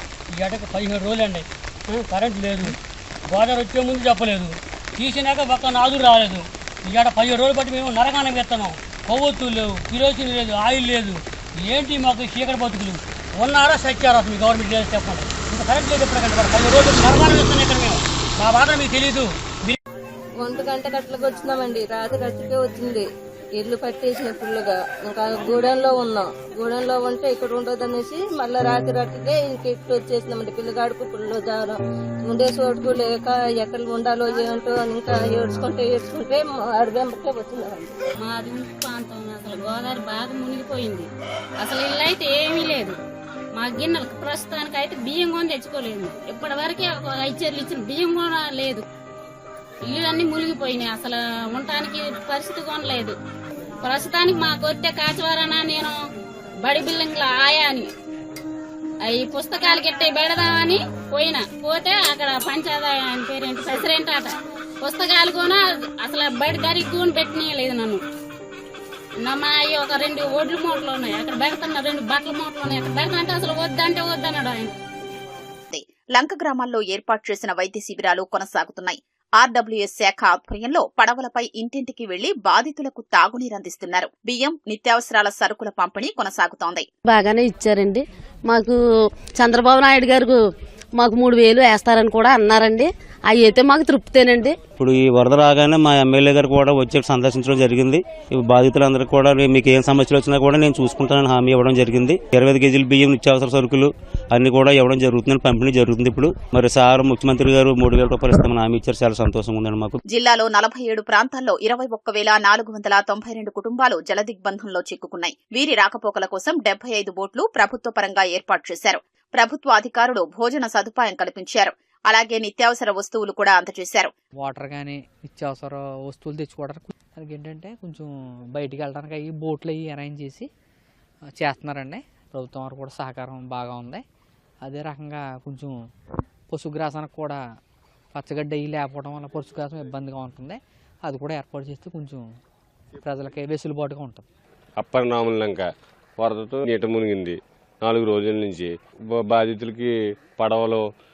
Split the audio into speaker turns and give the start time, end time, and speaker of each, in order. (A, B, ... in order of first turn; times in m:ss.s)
0:00.4-0:02.8 A
0:03.3-0:19.8 A
0:20.4-0:23.1 B
0:23.6-0:37.9 B
0:38.2-0:41.1 C
0:41.6-0:43.0 C
0:43.6-0:48.8 C
0:49.9-0:53.2 C
0:53.8-0:55.9 C
0:56.6-0:57.9 C
0:59.1-1:08.0 C
1:09.2-1:14.7 C
1:15.7-1:26.9 D
1:27.1-1:28.8 E
1:29.4-1:30.4 E
1:31.0-1:34.6 E
1:34.8-1:50.0 F
1:50.1-2:04.1 D
2:04.4-2:10.5 G
2:11.4-2:14.0 G
2:14.6-2:15.8 G
2:16.5-2:17.4 G
2:18.1-2:22.3 G
2:23.0-2:24.2 G
2:24.8-2:25.6 H
2:26.2-2:30.8 H